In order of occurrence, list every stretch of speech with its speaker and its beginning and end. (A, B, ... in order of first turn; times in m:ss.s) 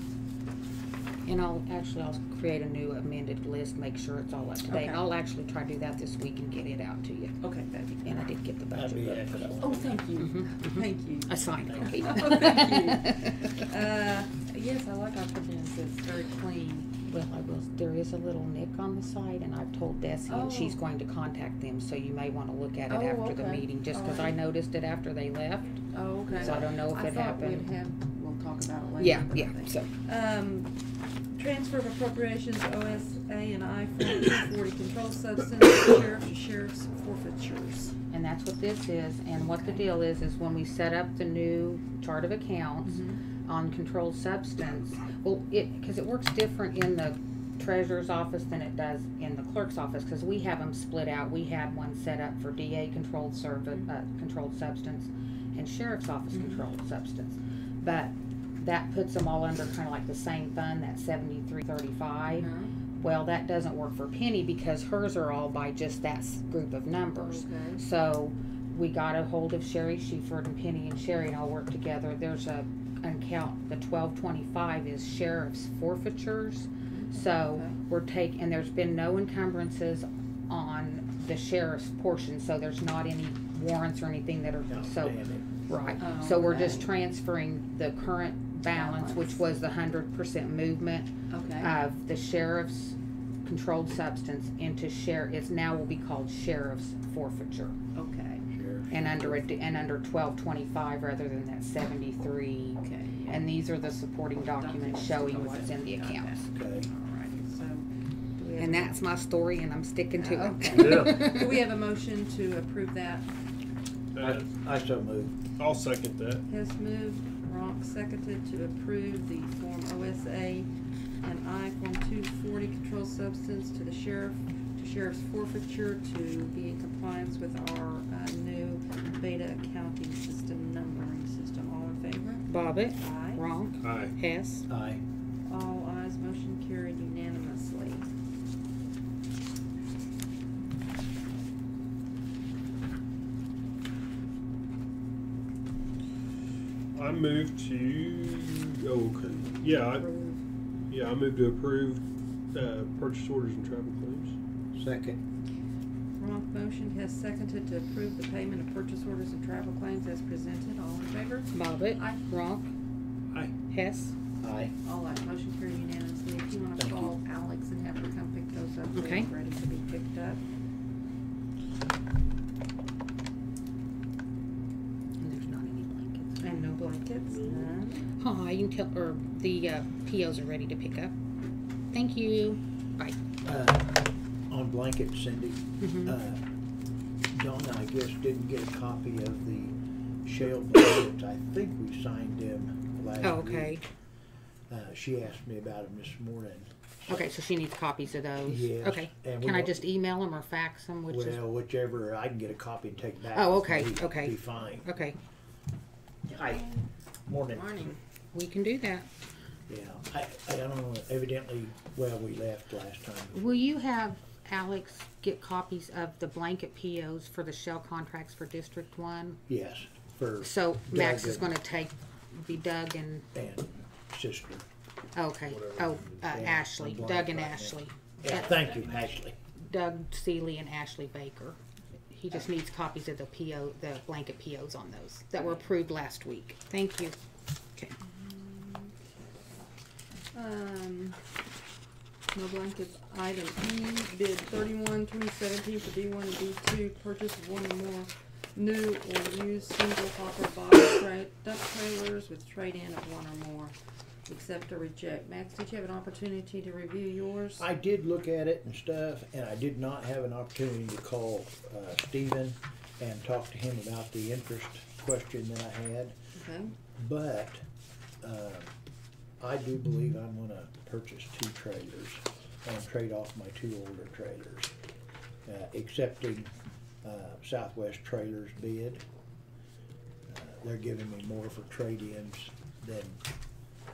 0:01.2-0:07.3 A
0:04.7-0:05.0 B
0:07.4-0:08.2 B
0:08.0-0:09.6 A
0:08.7-0:10.1 C
0:09.6-0:16.9 B
0:10.2-0:13.6 A
0:11.7-0:12.1 C
0:17.0-0:27.7 A
0:20.3-0:20.8 B
0:22.9-0:24.4 B
0:25.9-0:30.7 B
0:29.0-0:29.9 A
0:31.3-0:37.9 B
0:38.1-1:37.7 A
0:42.9-0:43.2 B
0:56.3-0:56.6 B
1:02.3-1:02.7 B
1:07.1-1:07.8 B
1:16.9-1:17.8 B
1:24.7-1:25.5 C
1:26.0-1:26.9 B
1:28.7-1:29.4 B
1:31.3-1:31.7 B
1:37.9-1:38.4 B
1:38.5-1:39.2 C
1:38.9-1:46.4 A
1:42.8-1:43.5 B
1:44.6-1:49.0 B
1:46.5-1:46.9 C
1:48.6-1:51.7 A
1:50.2-1:53.3 B
1:50.8-1:51.2 C
1:54.1-1:54.4 D
1:54.2-1:55.3 C
1:55.6-1:56.4 D
1:56.5-2:00.7 B
2:01.2-2:13.4 B
2:12.5-2:14.7 A
2:13.8-2:14.1 D
2:14.7-2:15.0 C
2:15.4-2:18.1 B
2:26.9-2:30.1 D
2:29.9-2:30.4 B
2:30.9-2:32.0 D
2:32.5-2:34.4 D
2:34.7-2:35.2 C
2:36.2-2:42.2 B
2:41.5-2:42.7 A
2:43.7-2:44.1 A
2:44.4-2:44.7 C
2:44.8-2:50.4 B
2:46.8-2:47.1 C
2:48.9-2:49.3 A
2:55.2-2:56.5 A
2:56.4-2:58.0 B
2:57.3-2:57.7 D
2:58.2-3:01.1 A
3:01.9-3:03.2 A
3:03.4-3:06.4 C
3:05.8-3:06.2 A
3:07.3-3:13.8 C
3:13.2-3:13.8 A
3:14.7-3:17.3 C
3:17.1-3:21.4 A
3:18.4-3:19.8 C
3:21.1-3:24.8 C
3:23.3-3:25.2 A
3:26.3-3:26.7 C
3:26.5-3:26.8 B
3:27.3-3:27.9 C
3:27.5-3:28.0 B
3:28.3-3:29.1 A
3:29.7-3:33.4 C
3:33.3-3:39.4 A
3:39.5-3:41.5 C
3:40.4-3:43.3 A
3:43.3-3:44.6 C
3:45.1-3:48.8 A
3:45.5-3:46.2 D
3:46.2-3:49.4 C
3:49.6-3:51.6 A
3:52.1-3:57.2 A
3:58.0-3:59.2 B
4:00.3-4:01.2 B
4:02.3-4:13.7 B
4:14.3-4:17.6 B
4:17.6-4:26.1 C
4:26.4-4:26.7 B
4:27.0-4:27.6 C
4:28.2-4:28.7 C
4:29.4-4:34.7 C
4:35.4-4:36.5 C
4:37.0-4:39.0 C
4:40.3-4:43.2 C